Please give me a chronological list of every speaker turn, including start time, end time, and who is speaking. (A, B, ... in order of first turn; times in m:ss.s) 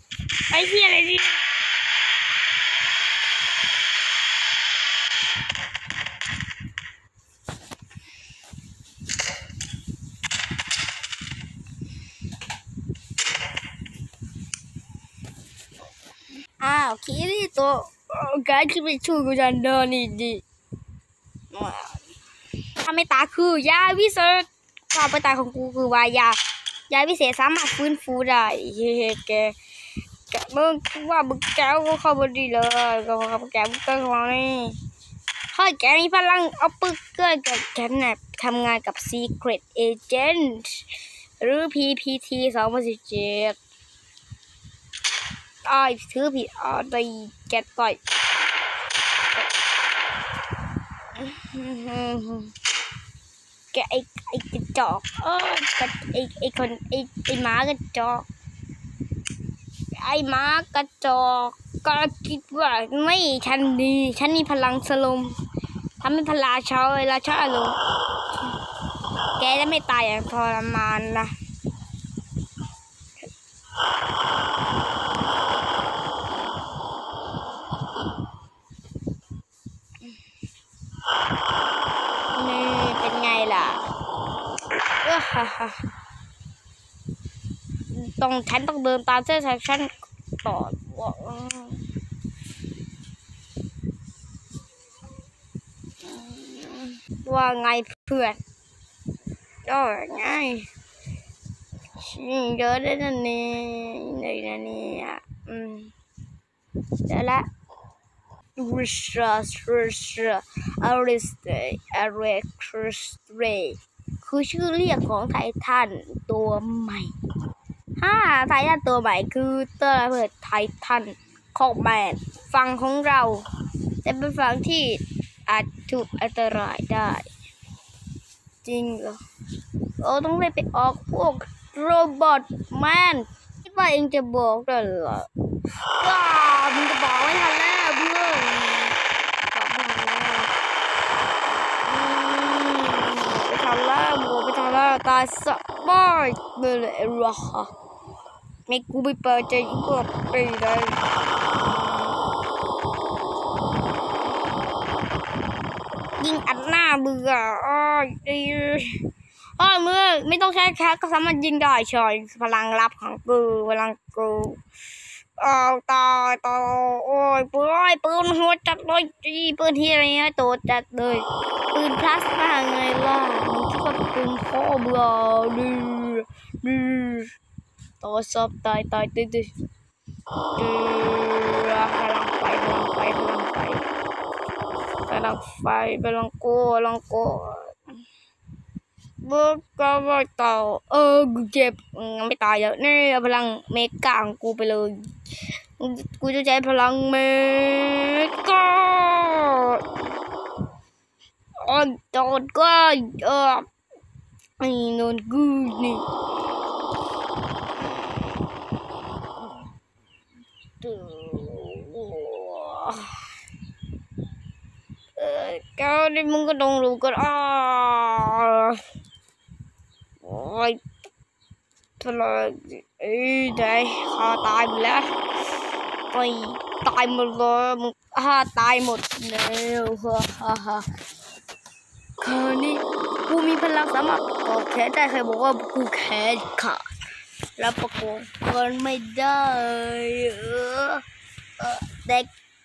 0:00.5-0:01.4 A
0:16.6-0:20.4 A
0:21.5-0:22.0 A
0:22.8-0:26.4 A
0:26.9-0:29.5 A
0:30.3-0:34.8 A
0:35.5-0:40.9 A
0:41.4-0:43.6 A
0:45.6-0:48.0 A
0:51.2-0:52.5 A
0:53.7-0:58.3 A
0:59.9-1:05.3 A
1:06.0-1:07.8 A
1:09.4-1:11.3 A
1:22.3-1:23.8 A
1:25.0-1:25.9 A
1:27.9-1:31.9 A
1:36.0-1:38.4 A
1:39.6-1:40.7 A
1:42.0-1:45.9 A
1:47.0-1:47.4 A
1:48.6-1:57.1 A
1:58.0-2:03.4 A
2:04.0-2:07.3 A
2:08.6-2:09.2 A
2:10.0-2:15.3 A
2:15.9-2:19.0 A
2:19.5-2:20.5 A
2:21.8-2:27.7 A
2:28.7-2:31.0 A
2:31.5-2:32.2 A
2:36.2-2:39.0 A
2:39.6-2:44.6 A
2:45.4-2:57.3 A
2:58.0-2:59.5 A
3:00.6-3:03.9 A
3:05.1-3:07.8 A
3:09.2-3:15.0 A
3:15.8-3:19.8 A
3:21.6-3:23.6 A
3:24.6-3:26.0 A
3:27.8-3:28.4 A
3:30.8-3:33.2 A
3:35.2-3:38.8 A
3:40.2-3:40.8 A
3:42.0-3:45.0 A
3:46.1-3:50.8 A
3:52.2-3:56.8 A
3:57.6-4:01.0 A
4:01.6-4:02.3 A